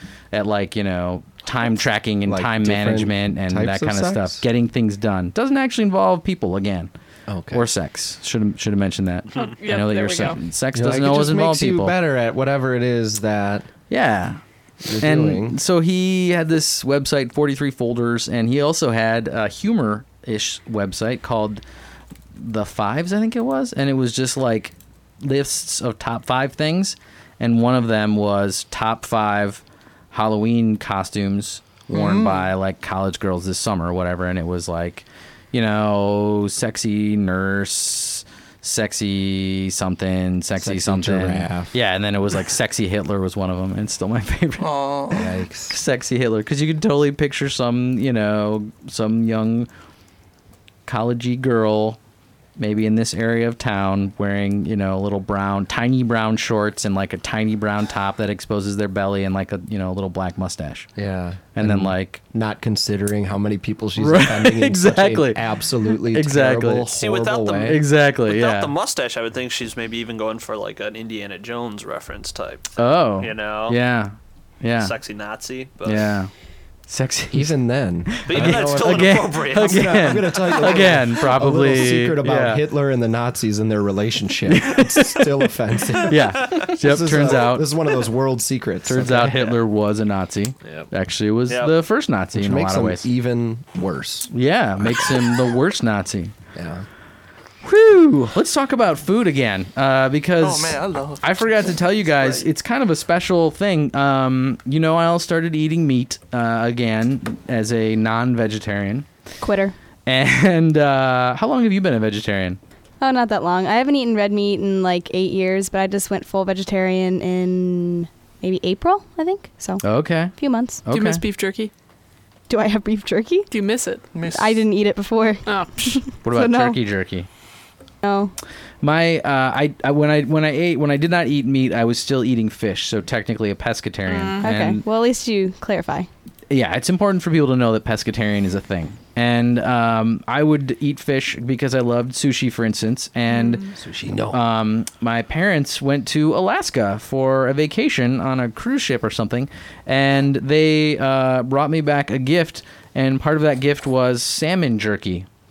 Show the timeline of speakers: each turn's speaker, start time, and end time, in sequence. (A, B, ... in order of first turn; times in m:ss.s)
0:00.3-0:06.9 A
0:02.3-0:04.4 B
0:07.3-0:07.7 B
0:07.5-0:12.0 A
0:09.4-0:10.4 C
0:10.7-0:13.7 B
0:13.9-0:14.4 A
0:14.8-0:15.6 B
0:15.0-0:21.6 A
0:22.4-0:44.7 A
0:31.9-0:32.5 D
0:40.6-0:41.8 B
0:44.6-0:45.2 D
0:45.1-0:45.8 B
0:45.7-0:49.7 A
0:50.9-0:52.0 A
0:52.6-1:00.9 A
1:01.0-1:07.8 B
1:01.6-1:02.2 A
1:04.0-1:05.4 A
1:06.0-1:06.9 A
1:06.9-1:13.8 E
1:07.6-1:08.7 A
1:12.8-1:15.0 A
1:14.8-1:16.2 E
1:15.8-1:16.3 A
1:16.9-1:17.6 A
1:17.3-1:29.6 B
1:18.1-1:22.6 A
1:18.2-1:20.9 E
1:24.5-1:25.4 A
1:26.0-1:27.7 A
1:26.4-1:26.7 E
1:28.8-1:33.1 A
1:30.6-1:30.9 E
1:31.5-1:31.8 E
1:32.3-1:35.1 B
1:34.3-1:36.3 A
1:36.6-1:36.9 B
1:37.6-1:49.1 A
1:40.4-1:42.4 D
1:49.4-1:49.8 F
1:50.1-1:52.6 A
1:53.0-2:00.8 F
1:59.8-2:00.3 A
2:00.8-2:01.2 A
2:00.9-2:01.7 C
2:02.5-2:03.5 F
2:03.5-2:04.2 C
2:04.1-2:04.6 D
2:04.2-2:06.8 F
2:05.4-2:06.0 C
2:06.2-2:07.3 A
2:08.0-2:08.3 F
2:08.8-2:14.8 A
2:14.1-2:14.5 C
2:14.4-2:16.1 F
2:16.5-2:23.6 A
2:23.3-2:23.7 C
2:23.7-2:24.4 B
2:24.3-2:35.3 A